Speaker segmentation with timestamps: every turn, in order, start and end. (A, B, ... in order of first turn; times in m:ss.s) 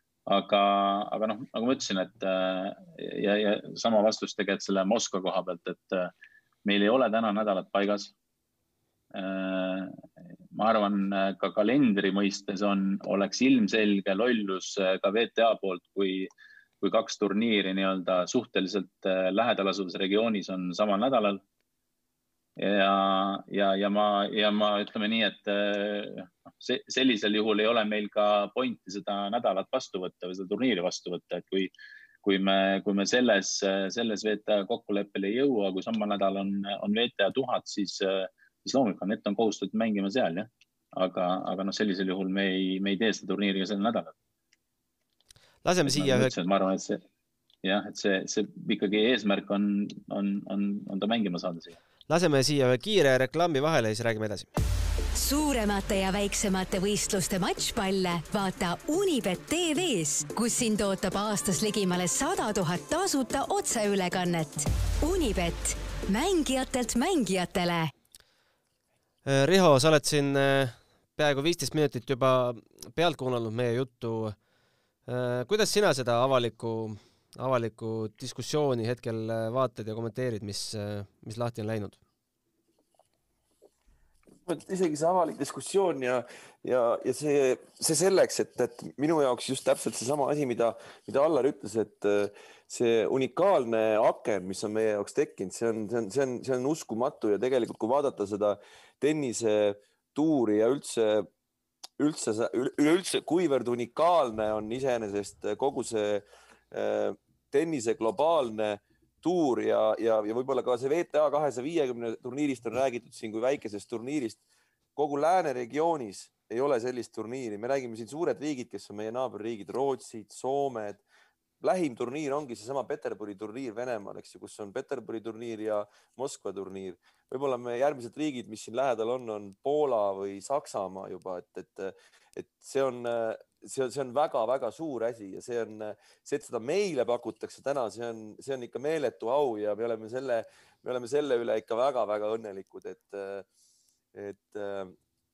0:00.3-0:06.1 A
0:06.6-0:08.2 A
0:09.1-0:10.0 A
0:10.5-0:21.4 A
0:22.6-0:31.7 A
0:32.2-0:44.2 A
0:45.6-0:46.3 B
0:45.9-0:47.0 A
0:47.6-0:51.8 A
0:52.1-0:54.5 B
0:55.2-1:07.9 C
1:09.2-1:14.4 B
1:15.1-1:22.0 B
1:24.4-1:41.3 D
1:42.0-1:54.4 D
1:55.0-2:01.0 D
2:01.6-2:23.5 D
2:24.1-2:25.0 D